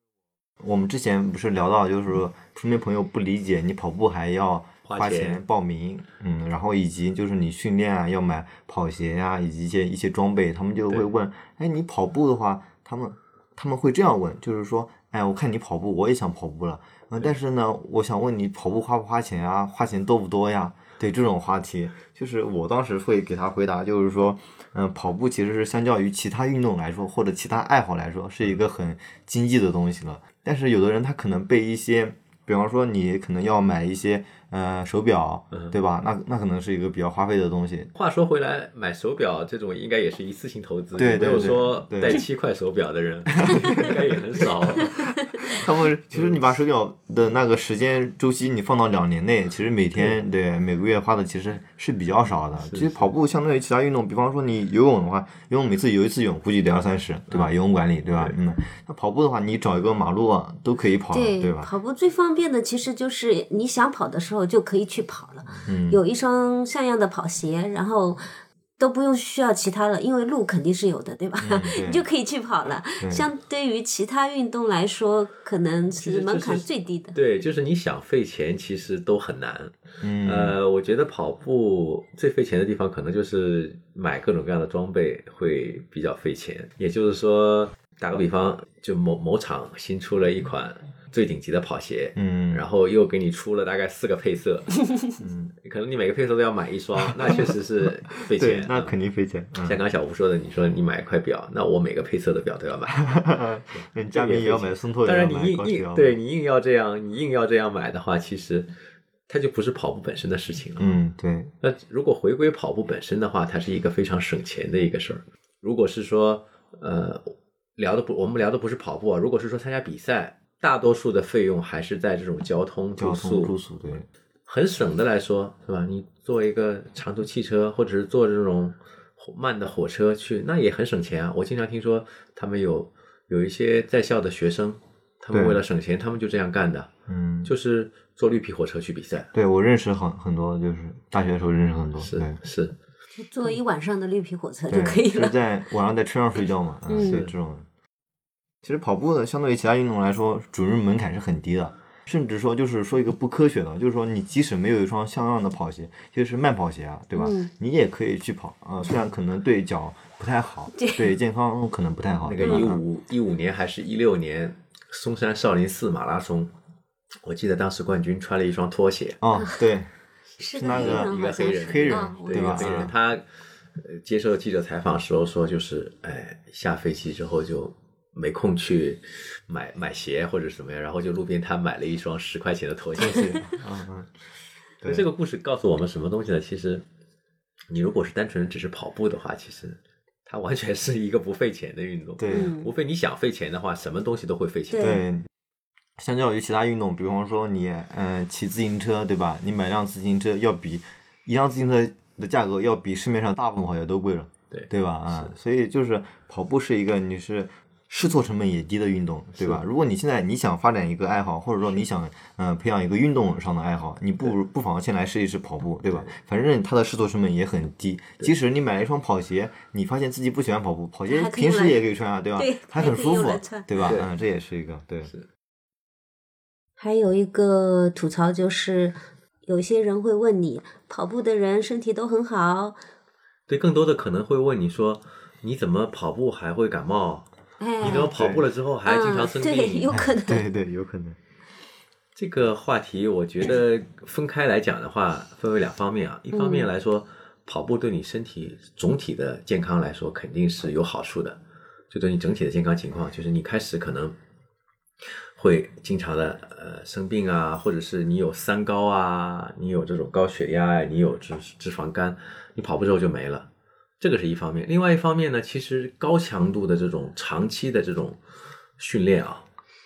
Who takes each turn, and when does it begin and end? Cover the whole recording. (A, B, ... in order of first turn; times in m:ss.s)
0:00.6-0:37.9 A
0:04.9-0:05.4 B
0:37.9-0:45.6 B
0:41.0-0:42.2 A
0:43.4-1:01.7 A
0:52.6-0:53.1 B
1:01.1-1:08.2 C
1:05.6-1:06.0 A
1:08.8-1:17.2 C
1:11.4-1:12.0 A
1:13.0-1:13.3 A
1:16.0-1:34.9 B
1:20.0-1:20.6 A
1:32.2-1:32.6 A
1:35.2-1:35.5 A
1:35.6-1:38.9 B
1:38.3-1:39.8 A
1:39.6-1:43.0 B
1:43.0-1:46.1 A
1:43.7-1:48.7 B
1:49.3-1:51.0 B
1:50.8-1:51.5 A
1:51.6-2:03.6 B
2:03.0-2:04.0 A
2:04.5-2:16.9 B
2:15.3-2:15.6 A
2:17.1-2:17.5 A
2:17.4-2:19.3 B
2:19.3-2:22.4 A
2:22.0-2:22.7 B
2:23.1-2:25.3 C
2:24.7-2:27.6 A
2:26.9-2:27.2 C
2:26.9-2:27.3 B
2:28.6-2:42.8 A
2:37.2-2:37.5 C
2:40.8-2:41.1 C
2:42.3-2:46.5 B
2:47.2-2:49.2 B
2:49.2-2:49.9 A
2:49.4-2:49.6 C
2:50.4-2:52.9 C
2:50.6-2:52.9 A
2:50.6-3:03.5 B
3:03.0-3:04.2 A
3:04.8-3:05.1 A
3:04.8-3:06.8 B
3:07.7-3:15.0 B
3:12.2-3:12.5 A
3:12.3-3:12.7 C
3:14.7-3:15.0 C
3:14.8-3:15.3 A
3:16.0-3:45.1 A
3:24.5-3:25.3 B
3:29.4-3:29.6 B
3:35.9-3:36.1 B
3:41.1-3:41.8 C
3:42.4-3:43.6 C
3:43.8-3:44.1 B
3:46.8-3:52.8 C
3:53.5-3:57.3 B
3:57.6-3:58.1 C
3:57.8-3:59.9 B
3:57.8-3:58.4 A
3:58.9-4:00.5 C
3:59.9-4:01.2 A
4:02.2-4:11.4 B
4:06.3-4:06.7 C
4:11.9-4:14.2 B
4:15.4-4:28.2 B
4:28.8-4:29.4 B